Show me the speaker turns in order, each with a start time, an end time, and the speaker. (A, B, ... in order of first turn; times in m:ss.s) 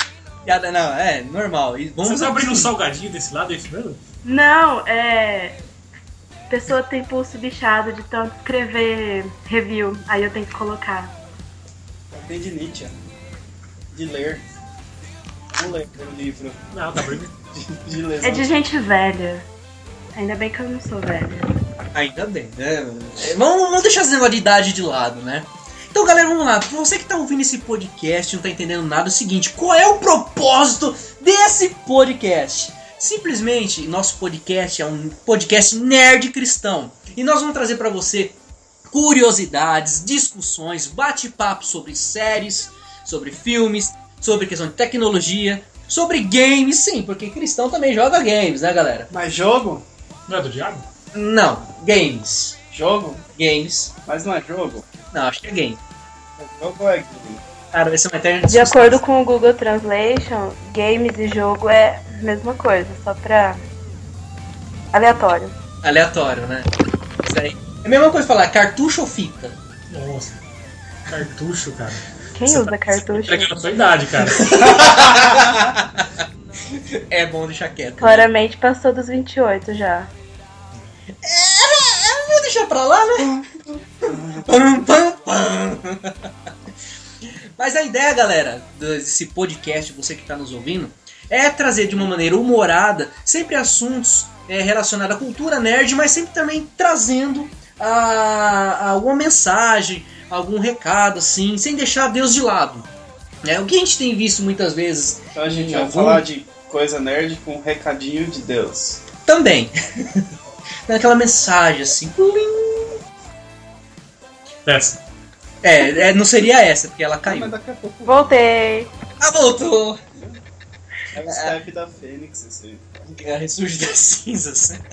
0:00.4-0:02.7 A
0:02.0-0:04.0 B
0:04.2-0:05.6 C
0:06.5-0:11.1 C
0:12.1-0:12.9 D
0:13.9-0:14.4 D
0:15.5-0:16.6 D
0:16.7-0:17.3 B
0:17.5-0:18.6 D
0:18.2-0:19.4 C
0:20.2-0:21.5 C
0:21.9-0:38.4 A
0:38.9-0:49.1 A
0:49.1-0:49.8 D
0:50.3-0:50.8 B
0:51.1-0:52.6 A
0:52.7-0:53.2 D
0:53.4-0:53.9 A
0:54.1-0:54.8 D
0:55.1-0:55.8 A
0:56.4-0:57.4 D
0:57.7-0:59.0 A
0:58.4-1:03.6 C
1:04.9-1:05.5 C
1:05.8-1:06.7 A
1:07.2-1:09.6 A
1:09.9-1:10.4 B
1:11.1-1:15.1 B
1:12.3-1:13.5 C
1:14.2-1:16.1 A
1:15.1-1:15.6 D
1:16.7-1:18.3 A
1:18.0-1:20.1 C
1:21.2-1:23.4 A
1:24.0-1:26.3 A
1:24.0-1:24.5 D
1:27.2-1:42.9 A
1:43.4-1:46.2 A
1:45.3-1:49.0 D
1:49.3-1:50.3 A
1:50.9-1:53.0 A
1:54.7-1:55.0 B
1:55.6-1:57.5 A
1:57.2-1:58.3 D
1:58.0-1:58.9 C
1:59.2-2:00.0 A
2:01.1-2:03.1 D
2:01.2-2:01.6 A
2:03.1-2:04.8 A